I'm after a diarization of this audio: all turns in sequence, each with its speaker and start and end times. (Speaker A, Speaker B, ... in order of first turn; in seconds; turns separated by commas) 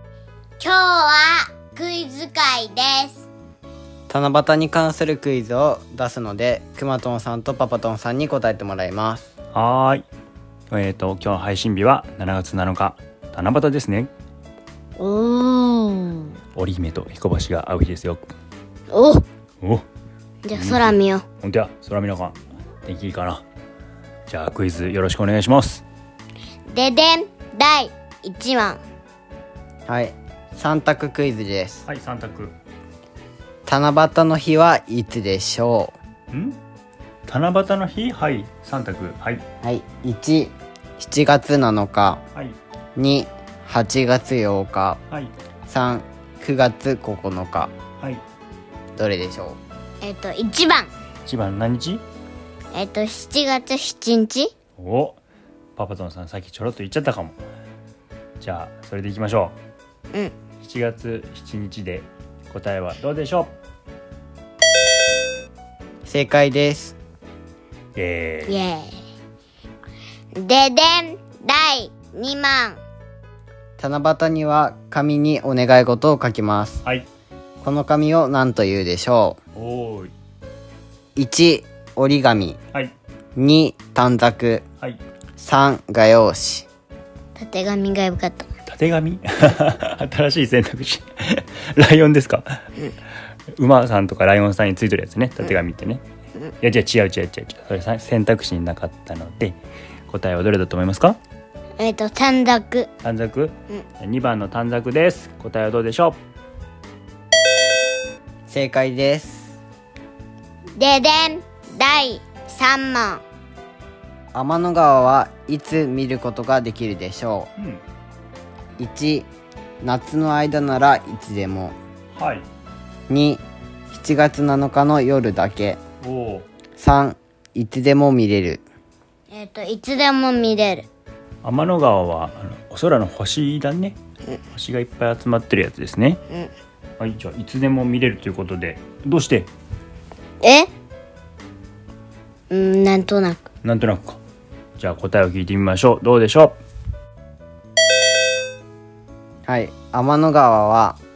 Speaker A: 0.6-3.2, Speaker B: 4.1-9.3, Speaker C: 9.5-10.1, Speaker C: 10.7-14.1, Speaker A: 15.0-16.3, Speaker C: 16.5-18.3, Speaker A: 18.9-19.2, Speaker A: 20.4-21.2, Speaker C: 20.5-23.4, Speaker C: 24.3-25.8, Speaker A: 26.7-28.8, Speaker B: 29.9-31.8, Speaker C: 31.9-32.5, Speaker B: 33.6-36.0, Speaker C: 36.3-36.6, Speaker C: 37.3-39.4, Speaker B: 39.6-42.2, Speaker B: 43.0-45.0, Speaker B: 45.7-47.7, Speaker B: 49.0-49.6, Speaker A: 50.0-50.9, Speaker C: 51.2-52.0, Speaker A: 52.7-54.5, Speaker C: 54.8-55.2, Speaker C: 55.8-57.4, Speaker C: 58.4-59.5, Speaker C: 60.6-63.5, Speaker B: 66.0-67.0, Speaker C: 68.0-68.6, Speaker A: 68.5-69.0, Speaker A: 70.3-72.8, Speaker B: 73.8-76.8, Speaker B: 77.6-79.4, Speaker C: 79.5-80.1, Speaker B: 81.2-82.6, Speaker B: 83.3-84.6, Speaker B: 85.4-86.7, Speaker A: 87.3-88.5, Speaker C: 88.7-92.6, Speaker C: 93.5-96.0, Speaker C: 96.6-99.6, Speaker C: 100.1-101.2, Speaker A: 101.8-102.9, Speaker C: 103.0-106.2, Speaker B: 108.5-109.6, Speaker A: 110.8-113.2, Speaker B: 114.3-117.5, Speaker C: 117.6-117.8, Speaker B: 118.8-119.3, Speaker B: 119.8-121.8, Speaker C: 122.1-122.5, Speaker B: 123.1-125.8, Speaker C: 126.0-126.5, Speaker B: 126.8-128.6, Speaker A: 129.3-130.9, Speaker C: 131.4-134.0, Speaker C: 134.5-136.2, Speaker C: 137.0-139.5, Speaker A: 140.4-140.7, Speaker A: 142.5-143.4, Speaker C: 143.6-144.2, Speaker C: 144.8-146.6, Speaker B: 149.4-151.0